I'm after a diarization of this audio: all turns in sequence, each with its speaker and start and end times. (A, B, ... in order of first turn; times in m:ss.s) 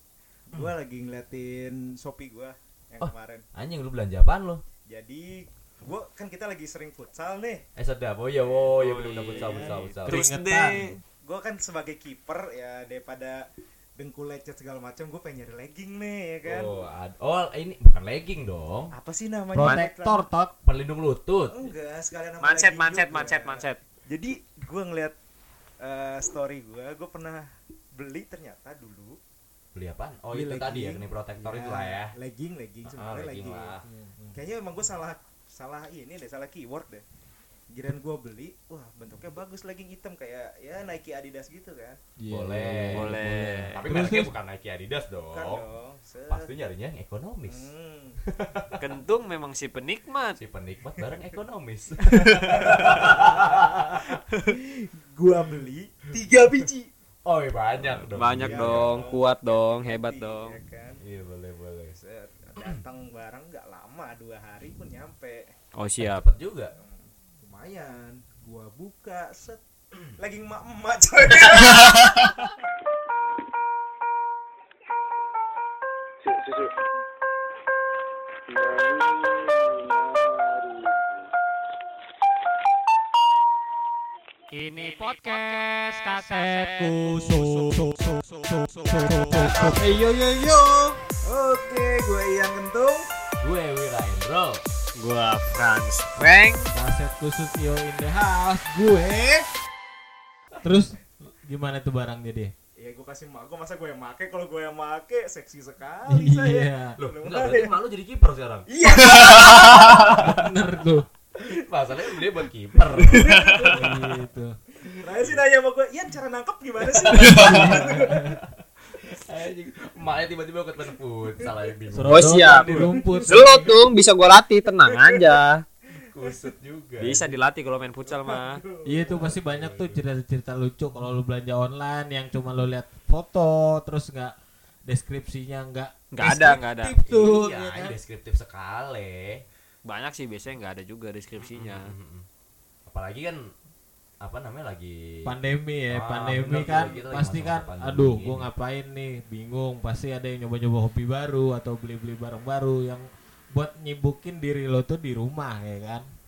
0:00.5-0:03.4 A
0:03.0-0:04.6 B
0:04.9-0:07.6 A
0:07.8-0:10.3 B
0:08.8-0:11.0 C
0:09.2-0:09.9 A
0:10.0-0:10.9 D
0:11.2-0:13.4 A
0:14.0-0:16.7 A
0:16.4-0:18.9 B
0:18.9-0:20.2 A
0:19.5-0:20.5 D
0:20.6-0:21.7 B
0:21.5-0:25.2 A
0:22.4-0:23.8 C
0:25.8-0:29.2 A
0:29.7-0:32.1 B
0:30.3-0:33.8 A
0:32.8-0:33.9 B
0:33.8-0:34.4 D
0:34.3-0:37.0 A
0:37.7-0:42.0 A
0:42.2-0:44.3 D
0:42.3-0:43.2 B
0:42.9-0:43.8 C
0:43.7-0:45.6 B
0:45.3-0:46.5 A
0:46.3-0:47.7 B
0:47.5-0:48.2 A
0:48.2-0:48.8 B
0:48.8-0:50.4 C
0:50.4-0:54.2 B
0:52.4-0:56.9 A
0:57.2-0:59.1 B
0:58.1-1:00.5 C
0:58.4-1:01.0 A
1:01.0-1:02.0 B
1:01.9-1:05.5 A
1:05.7-1:06.2 C
1:06.0-1:06.7 B
1:06.8-1:09.6 A
1:10.2-1:12.4 A
1:11.8-1:12.2 C
1:24.6-1:29.4 E
1:26.8-1:28.0 D
1:28.9-1:31.0 D
1:31.2-1:33.0 A
1:33.4-1:34.6 B
1:35.0-1:36.7 C
1:36.7-1:39.4 D
1:40.6-1:42.5 D
1:42.8-1:47.8 A
1:46.1-1:47.0 D
1:47.0-1:50.5 B
1:48.7-1:50.2 A
1:49.0-1:50.1 C
1:50.1-1:51.0 D
1:51.4-1:53.7 B
1:53.1-1:53.7 C
1:53.1-1:53.8 A
1:53.7-1:54.6 D
1:55.0-1:58.2 A
1:55.0-1:55.4 B
1:56.8-1:58.4 B
1:57.1-1:58.4 D
1:59.0-2:03.6 B
2:01.9-2:03.7 D
2:02.1-2:05.6 C
2:06.1-2:07.3 B
2:07.0-2:08.6 C
2:08.0-2:09.4 A
2:08.8-2:14.3 D
2:09.4-2:10.0 B
2:14.8-2:17.9 D
2:16.1-2:16.9 C
2:17.0-2:19.4 B
2:19.8-2:21.9 C
2:21.4-2:22.3 B
2:22.8-2:23.5 B
2:24.2-2:25.3 B
2:25.2-2:36.1 D
2:25.9-2:28.5 B